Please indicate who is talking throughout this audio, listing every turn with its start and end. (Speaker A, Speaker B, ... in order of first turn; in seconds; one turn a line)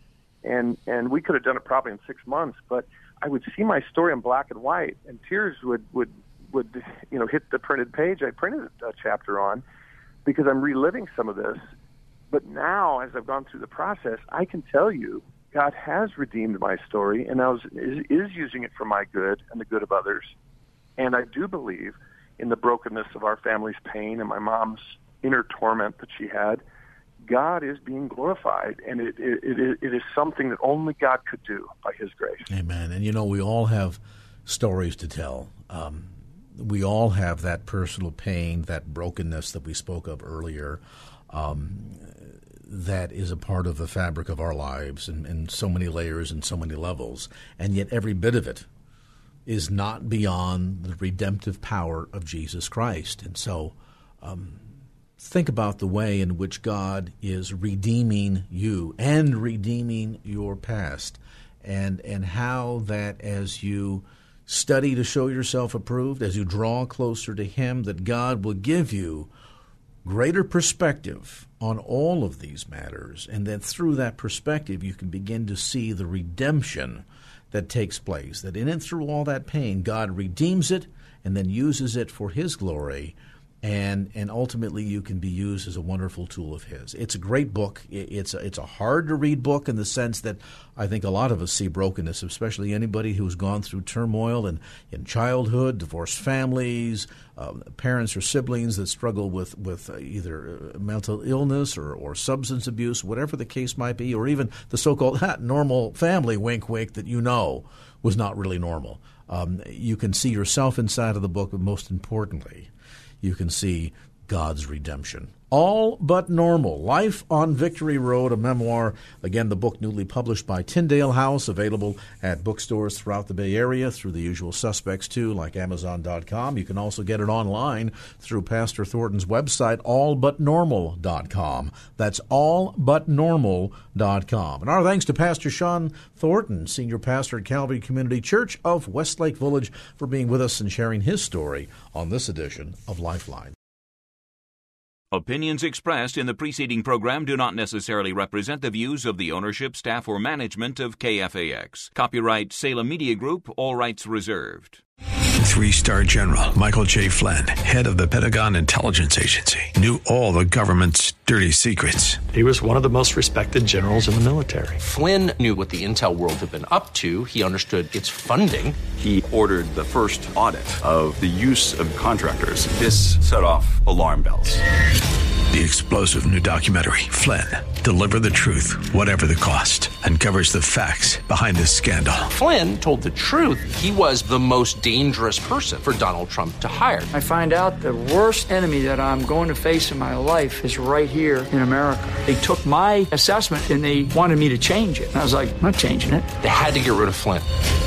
Speaker A: 0.4-9.6
Speaker A: 10.2-11.6
Speaker A: 12.3-20.3
Speaker A: 21.0-26.6
Speaker A: 27.2-32.5
Speaker B: 32.5-48.7
Speaker B: 49.5-54.6
Speaker B: 55.2-69.3
Speaker B: 70.0-112.7
Speaker B: 113.2-143.5
Speaker C: 145.1-154.8
Speaker D: 155.4-162.3
Speaker E: 162.3-164.8
Speaker F: 164.8-168.8
Speaker G: 169.0-174.6
Speaker D: 175.5-182.3
Speaker F: 182.3-187.1
Speaker H: 187.1-196.3
Speaker F: 196.4-197.5